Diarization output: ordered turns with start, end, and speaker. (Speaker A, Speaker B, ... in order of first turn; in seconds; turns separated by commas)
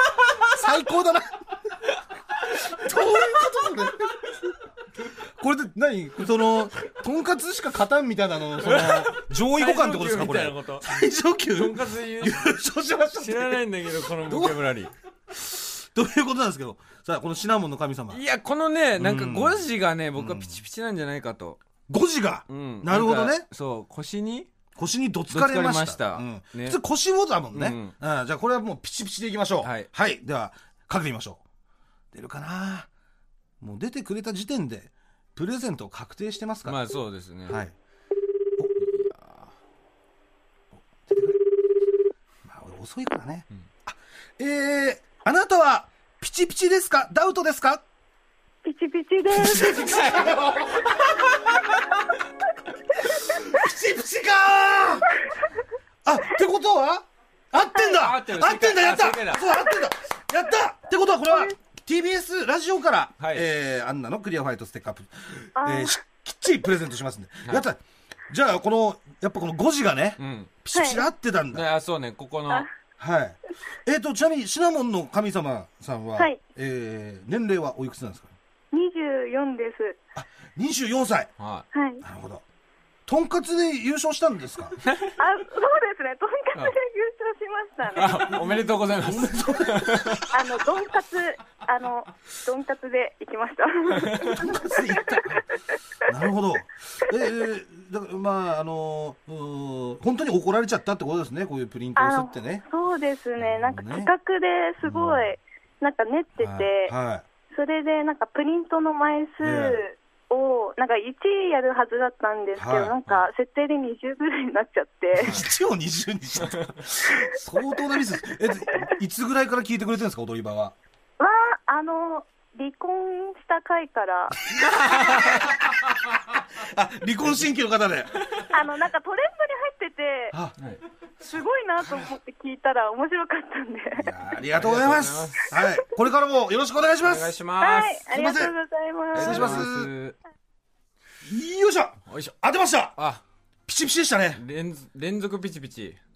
Speaker A: 0.5-1.4, Speaker A: 2.7-4.3, Speaker A: 5.4-13.6, Speaker B: 8.6-10.9, Speaker B: 11.5-12.5, Speaker B: 13.2-14.9, Speaker A: 14.2-14.7, Speaker A: 15.3-18.2, Speaker B: 18.1-21.6, Speaker A: 19.0-20.6, Speaker A: 21.9-23.5, Speaker B: 22.5-24.5, Speaker A: 24.8-31.4, Speaker B: 25.3-26.8, Speaker B: 27.5-27.9, Speaker B: 29.6-29.9, Speaker A: 32.1-32.9, Speaker A: 33.6-36.8, Speaker B: 36.6-37.6, Speaker A: 37.5-37.7, Speaker B: 38.8-39.5, Speaker A: 41.0-41.4, Speaker A: 42.4-47.8, Speaker C: 48.6-50.0, Speaker A: 49.3-50.9, Speaker B: 49.7-51.7, Speaker A: 53.2-55.1, Speaker A: 56.0-71.6, Speaker B: 57.9-59.5, Speaker B: 63.2-63.4, Speaker C: 65.5-66.0, Speaker B: 70.2-70.5, Speaker C: 70.7-71.0, Speaker B: 71.5-72.7, Speaker A: 73.0-78.3, Speaker C: 78.7-80.0, Speaker A: 80.2-81.3, Speaker B: 81.4-81.7, Speaker C: 81.7-82.0, Speaker A: 82.0-82.4, Speaker A: 83.1-84.8, Speaker B: 84.8-85.1, Speaker C: 85.2-88.5, Speaker B: 87.9-90.3, Speaker A: 88.3-90.3, Speaker C: 90.3-95.4, Speaker B: 94.0-94.3, Speaker A: 94.2-95.4, Speaker A: 96.0-102.6, Speaker C: 102.0-106.9, Speaker A: 103.4-104.1, Speaker A: 104.8-105.3, Speaker A: 106.4-107.2, Speaker C: 107.5-115.3, Speaker A: 109.4-109.8, Speaker A: 112.5-113.0, Speaker A: 115.2-120.7, Speaker C: 121.2-124.4, Speaker A: 124.5-128.1, Speaker B: 124.8-125.4, Speaker C: 128.4-130.3, Speaker C: 131.2-134.1, Speaker A: 131.8-132.1, Speaker A: 134.0-137.3, Speaker B: 134.5-135.5, Speaker B: 137.0-138.0, Speaker C: 137.6-139.6, Speaker A: 138.1-138.5, Speaker B: 139.1-140.2, Speaker A: 139.1-139.9, Speaker A: 141.2-143.0, Speaker B: 142.1-142.3, Speaker B: 142.9-143.2, Speaker A: 143.7-144.4, Speaker B: 144.3-146.0